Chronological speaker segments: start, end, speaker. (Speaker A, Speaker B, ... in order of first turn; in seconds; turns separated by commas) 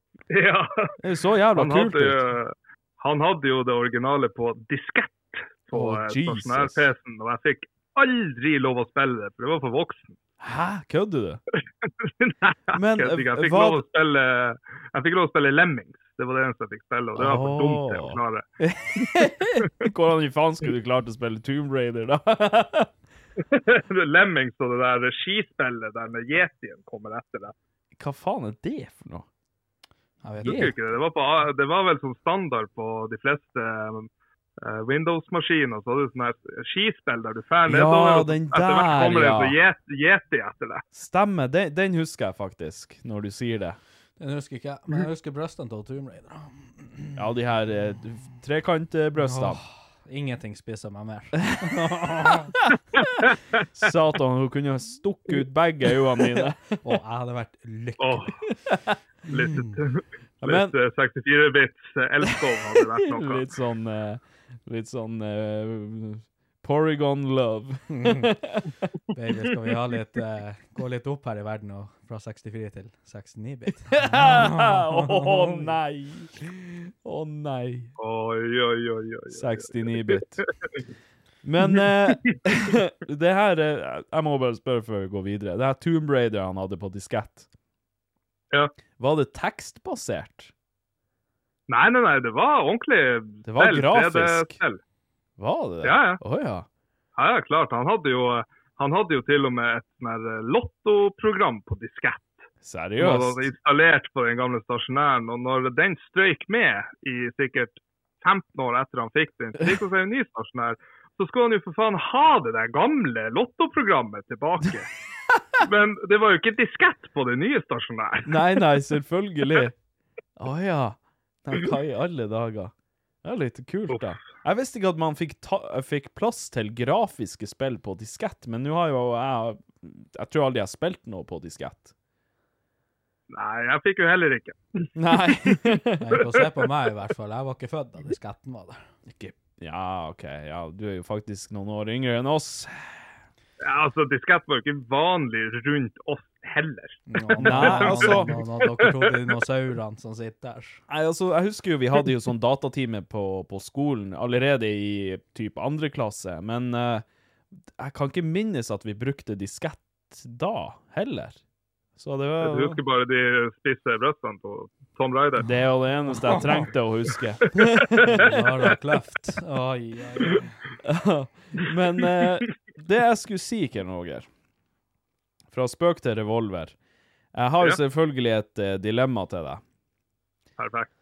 Speaker A: 0.3-0.9, Speaker B: 1.0-2.3, Speaker A: 1.5-10.2, Speaker B: 5.7-6.9, Speaker B: 10.4-11.4, Speaker A: 11.8-18.4, Speaker B: 12.7-13.8, Speaker B: 17.1-22.9, Speaker A: 23.4-27.5, Speaker B: 28.0-29.3, Speaker C: 30.2-30.7, Speaker B: 30.4-30.7, Speaker A: 30.4-40.8, Speaker B: 37.7-39.6, Speaker B: 40.9-43.8, Speaker C: 44.2-47.2, Speaker B: 47.1-49.6, Speaker C: 49.2-52.5, Speaker B: 53.8-56.8, Speaker C: 56.8-58.3, Speaker A: 58.0-58.3, Speaker C: 59.3-59.8, Speaker A: 59.3-63.5, Speaker B: 60.4-60.7, Speaker B: 62.3-68.7, Speaker C: 67.9-68.3, Speaker C: 69.1-75.7, Speaker B: 74.0-77.9, Speaker A: 78.0-80.3, Speaker B: 79.3-80.4, Speaker B: 81.4-87.5, Speaker B: 89.0-90.5, Speaker A: 91.7-94.8, Speaker B: 93.4-94.6, Speaker B: 95.4-96.7, Speaker A: 95.8-96.2, Speaker A: 97.2-102.4, Speaker B: 102.6-103.5, Speaker A: 103.0-114.9, Speaker A: 115.6-118.6, Speaker B: 118.2-119.8, Speaker B: 120.4-122.7, Speaker B: 123.2-131.9, Speaker A: 123.9-124.1, Speaker A: 133.3-134.9, Speaker B: 134.9-136.0, Speaker C: 136.0-138.8, Speaker A: 136.3-136.7, Speaker B: 139.1-142.9, Speaker A: 143.6-149.4, Speaker C: 147.1-150.8, Speaker B: 147.4-148.4, Speaker B: 150.9-157.0, Speaker B: 157.8-161.4, Speaker B: 162.0-162.8, Speaker A: 162.4-165.5, Speaker B: 165.4-168.3, Speaker C: 166.1-166.7, Speaker A: 168.0-168.8, Speaker C: 168.1-170.5, Speaker B: 170.8-174.3, Speaker A: 172.0-172.3, Speaker B: 175.5-176.8, Speaker B: 177.3-179.6, Speaker A: 180.6-180.9